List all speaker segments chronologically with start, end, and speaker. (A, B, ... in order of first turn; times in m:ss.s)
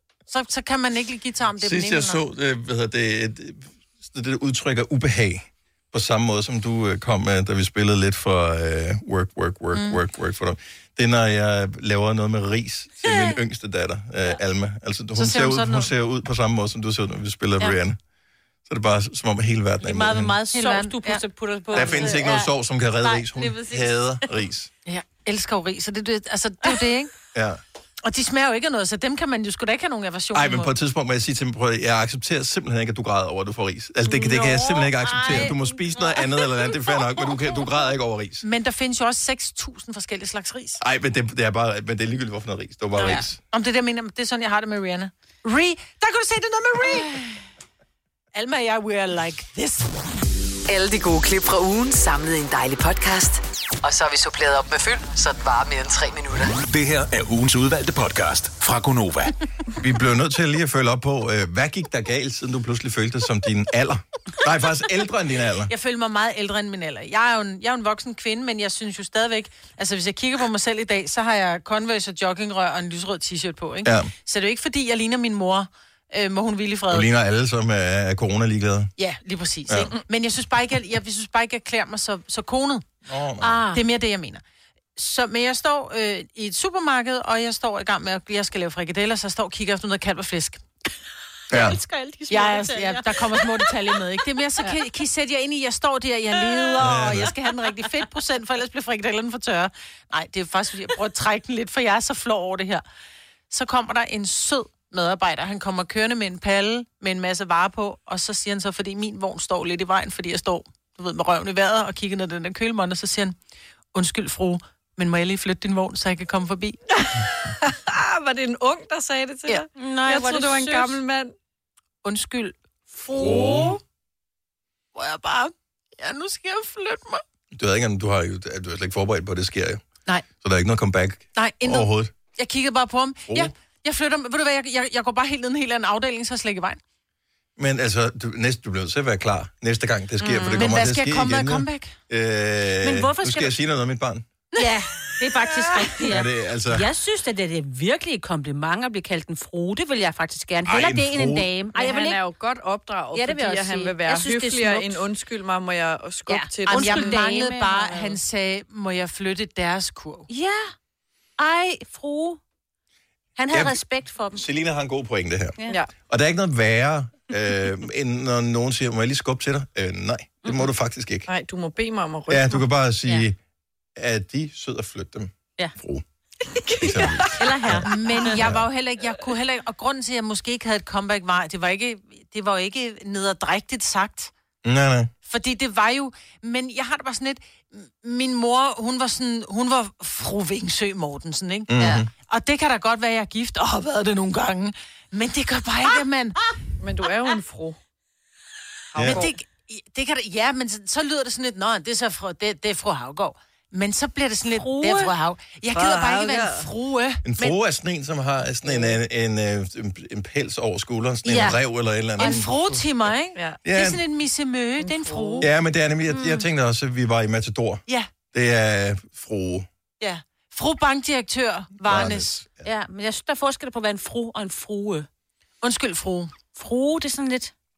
0:00.3-0:02.2 A
0:01.6-0:18.0 B
0:13.1-0:13.4 C
0:15.2-0:15.9 A
0:18.7-0:20.4 B
0:19.8-0:24.1 C
0:20.5-0:21.2 A
0:21.7-0:24.7 B
0:21.8-0:22.2 A
0:24.8-0:27.1 A
0:27.3-0:27.6 B
0:28.0-0:30.7 A
0:30.3-0:38.4 B
0:34.2-0:35.5 A
0:34.3-0:36.8 C
0:38.4-0:40.8 A
0:40.8-0:43.4 B
0:43.0-0:47.4 A
0:48.3-0:50.0 A
0:50.7-0:56.6 D
0:56.7-0:59.4 E
0:59.8-1:05.7 B
1:05.7-1:17.1 A
1:13.8-1:14.1 B
1:16.9-1:18.9 B
1:19.0-1:22.9 A
1:23.1-1:23.7 B
1:23.4-1:23.8 C
1:23.7-1:24.4 A
1:25.0-1:30.6 A
1:31.5-1:34.0 C
1:31.5-1:31.8 B
1:32.3-1:42.8 A
1:36.4-1:36.8 C
1:36.8-1:37.3 B
1:43.5-1:53.4 A
1:53.9-1:56.8 A
1:57.0-2:01.3 F
1:59.8-2:01.0 C
2:02.0-2:03.8 A
2:03.1-2:03.8 B
2:05.0-2:07.2 A
2:07.5-2:09.8 B
2:10.4-2:12.1 B
2:11.4-2:16.8 A
2:13.3-2:13.5 B
2:17.6-2:24.2 B
2:20.2-2:20.7 F
2:20.6-2:22.0 A
2:22.8-2:23.5 C
2:24.6-2:32.2 C
2:26.1-2:26.9 B
2:30.6-2:31.5 B
2:31.8-2:37.3 F
2:33.1-2:35.1 C
2:36.3-2:38.2 C
2:36.7-2:40.3 A
2:40.3-2:40.7 C
2:41.4-2:42.4 C
2:43.4-2:44.4 C
2:43.5-2:43.8 B
2:44.3-2:51.3 B
2:50.4-2:50.7 C
2:51.3-2:52.7 F
2:52.3-2:53.4 B
2:54.0-2:56.0 B
2:56.6-2:57.4 F
2:56.7-2:58.7 B
2:57.2-2:58.4 C
2:57.8-3:04.3 A
3:04.6-3:05.1 B
3:05.3-3:16.4 A
3:11.7-3:12.1 B
3:16.8-3:17.8 F
3:18.9-3:19.4 F
3:19.0-3:19.3 B
3:19.0-3:27.6 A
3:24.5-3:25.1 C
3:25.7-3:26.7 F
3:27.2-3:32.8 B
3:31.3-3:31.6 A
3:32.2-3:35.5 A
3:33.4-3:33.6 F
3:33.6-3:34.0 B
3:34.8-3:35.5 F
3:35.4-3:39.7 B
3:36.1-3:36.5 C
3:40.0-3:42.4 A
3:41.8-3:42.7 B
3:42.6-3:45.1 C
3:45.6-3:46.4 A
3:46.6-3:47.5 C